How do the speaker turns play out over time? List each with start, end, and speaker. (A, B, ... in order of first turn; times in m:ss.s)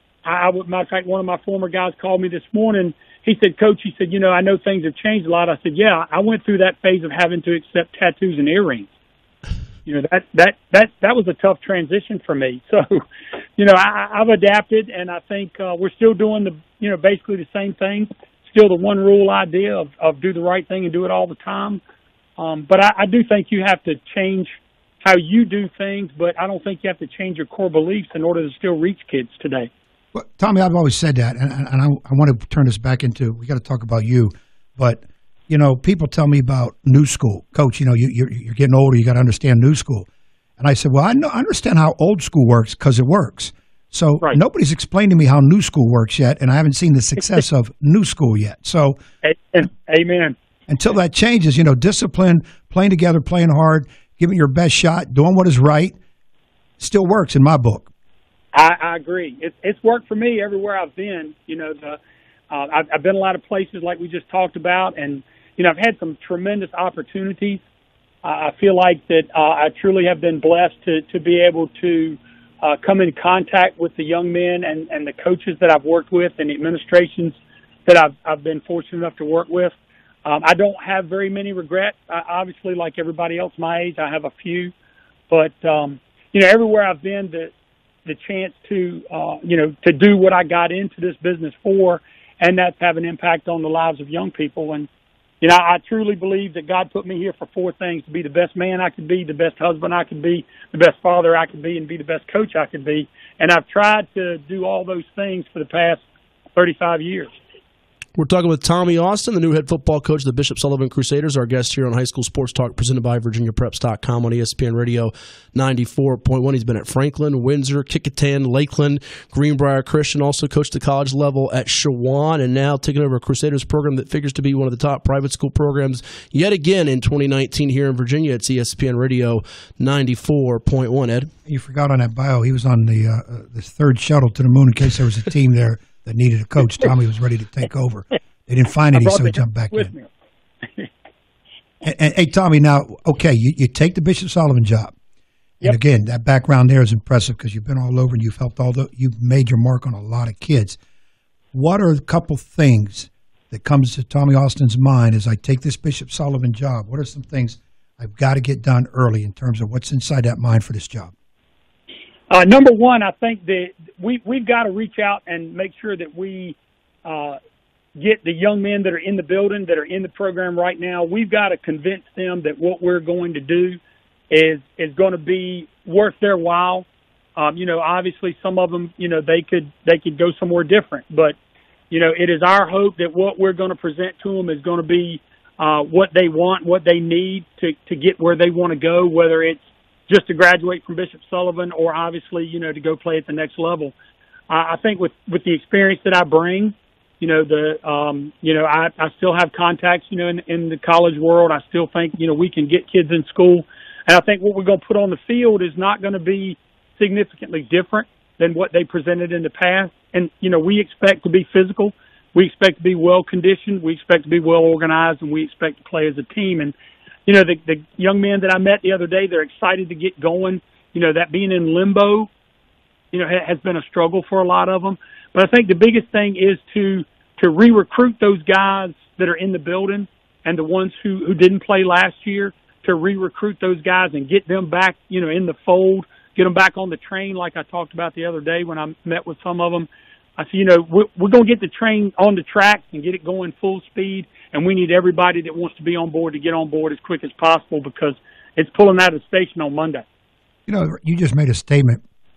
0:00.2-0:08.9 A
0:09.9-0:13.0 A
0:13.6-0:21.8 A
0:22.4-0:29.7 A
0:30.1-0:40.1 B
0:40.6-0:49.0 B
0:49.2-0:50.4 A
0:50.7-0:56.0 B
0:56.8-0:57.9 B
0:58.5-1:02.0 A
1:02.5-1:07.6 A
1:08.2-1:24.7 A
1:25.3-1:27.5 A
1:28.0-1:34.9 A
1:35.4-1:46.0 A
1:46.6-1:47.3 A
1:48.2-2:11.3 C
2:11.4-2:19.9 B
2:18.9-2:20.1 A
2:21.8-2:24.9 B
2:25.6-2:30.8 B
2:31.5-2:41.1 B
2:42.3-2:47.4 A
2:48.0-3:01.4 A
3:01.9-3:13.9 A
3:14.5-3:36.8 A
3:37.2-3:42.3 A
3:43.1-4:10.0 A
4:10.7-4:12.0 B